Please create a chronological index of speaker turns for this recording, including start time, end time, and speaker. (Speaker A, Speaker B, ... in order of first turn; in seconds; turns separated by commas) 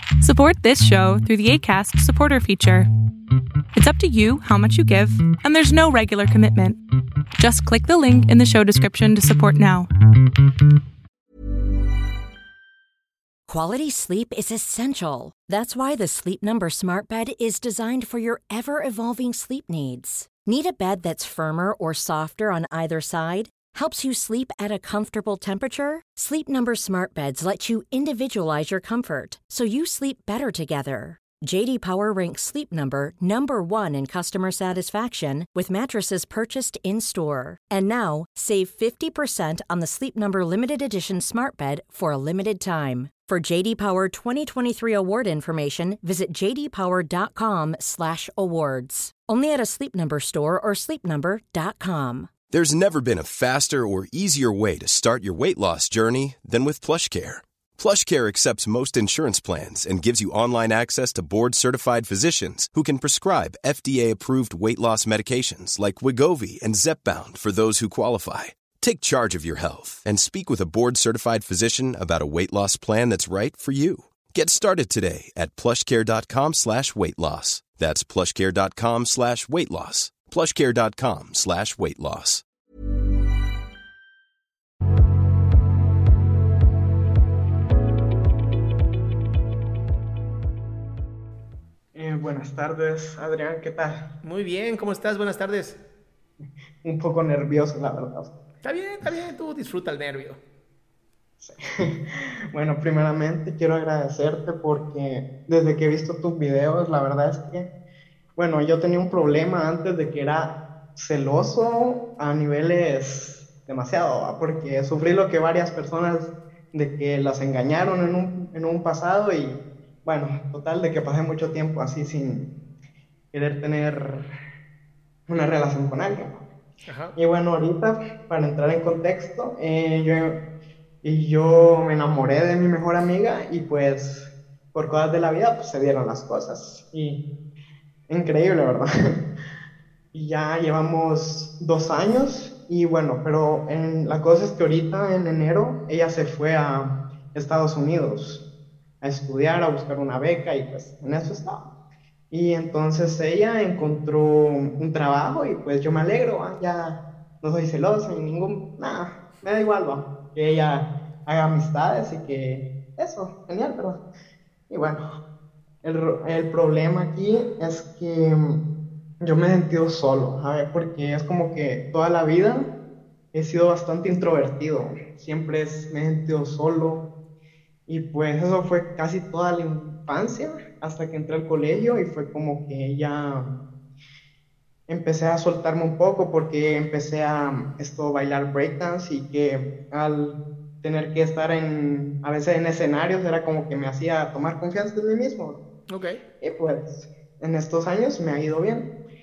Speaker A: 0.2-2.9, Speaker A: 3.7-6.8, Speaker A: 7.4-9.9, Speaker B: 13.5-52.3, Speaker C: 52.5-82.4, Speaker D: 91.9-94.0, Speaker E: 94.2-95.8, Speaker D: 96.8-98.3, Speaker E: 98.6-100.4, Speaker D: 101.4-107.7, Speaker D: 108.4-122.5, Speaker D: 123.3-124.3, Speaker D: 125.3-126.4, Speaker E: 126.9-127.2, Speaker D: 127.2-130.4, Speaker D: 131.0-137.2, Speaker D: 138.1-139.2, Speaker D: 140.1-148.4, Speaker D: 149.0-151.7, Speaker D: 152.3-164.0, Speaker D: 164.7-165.1, Speaker D: 165.8-168.6, Speaker D: 169.2-172.7, Speaker D: 173.3-177.1, Speaker D: 177.9-183.6, Speaker D: 184.9-195.6, Speaker E: 195.9-196.2, Speaker D: 196.4-198.9